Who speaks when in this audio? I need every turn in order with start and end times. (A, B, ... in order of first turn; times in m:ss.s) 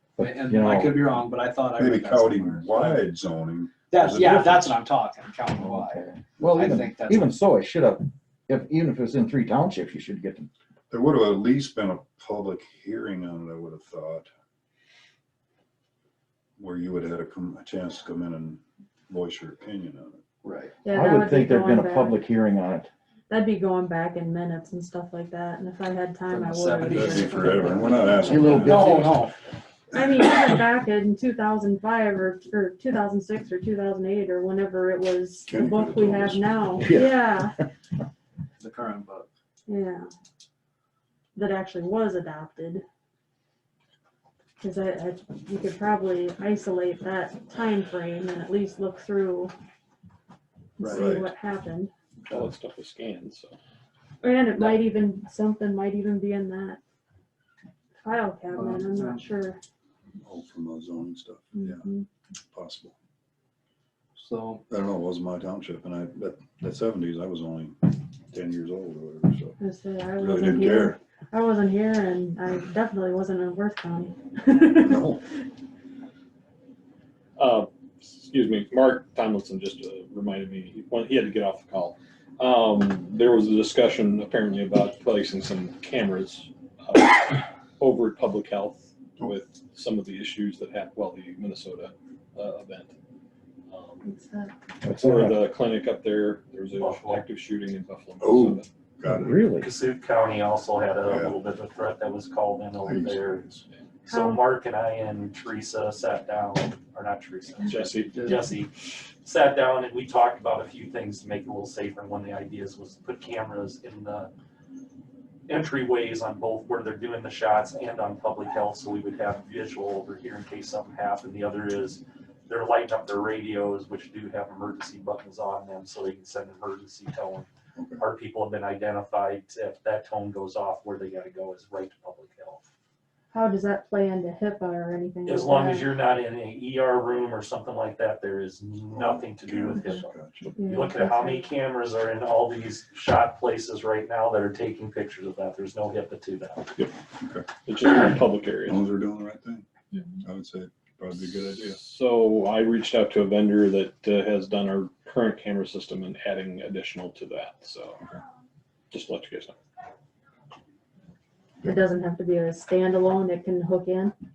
0:00.2-0:01.1 A
0:00.2-0:03.1 B
0:01.8-0:04.8 C
0:03.9-0:07.3 B
0:05.6-0:10.5 A
0:10.9-0:14.3 C
0:16.6-0:20.2 C
0:20.4-0:20.8 B
0:20.8-0:22.2 D
0:20.9-0:22.9 A
0:23.3-0:29.1 D
0:26.3-0:29.4 B
0:26.9-0:29.1 C
0:28.3-0:29.1 A
0:29.9-0:37.6 D
0:35.5-0:36.9 C
0:36.8-0:37.6 A
0:38.6-0:39.3 B
0:39.7-0:40.1 D
0:41.4-0:42.8 D
0:44.6-0:49.5 D
0:50.8-0:51.9 D
0:50.8-0:51.2 B
0:50.9-0:51.3 C
0:52.3-0:53.6 E
0:54.2-0:56.8 D
0:54.6-0:54.9 B
0:58.0-0:59.6 D
0:58.5-0:59.2 B
1:00.2-1:01.9 C
1:01.6-1:02.1 D
1:02.5-1:02.9 C
1:04.2-1:04.6 B
1:04.7-1:09.6 C
1:09.6-1:15.2 D
1:10.2-1:11.0 C
1:14.7-1:15.2 C
1:17.4-1:32.9 E
1:33.7-1:34.0 E
1:34.0-1:34.5 D
1:34.8-1:35.4 A
1:34.9-1:38.7 E
1:36.8-1:37.2 F
1:38.2-1:39.4 C
1:39.0-1:39.7 A
1:39.6-1:43.5 F
1:41.0-1:41.3 C
1:42.8-1:43.6 C
1:44.0-1:54.3 F
1:44.1-1:44.4 D
1:47.7-1:48.4 E
1:48.1-1:48.5 B
1:55.5-2:12.6 F
2:07.8-2:08.0 C
2:13.3-2:15.9 D
2:15.3-2:26.7 F
2:18.9-2:20.6 C
2:20.6-2:21.5 D
2:27.2-2:27.5 C
2:27.6-2:28.8 E
2:28.7-2:29.7 C
2:30.2-2:31.8 C
2:31.6-2:38.0 E
2:38.9-2:39.6 E
2:41.6-2:44.1 D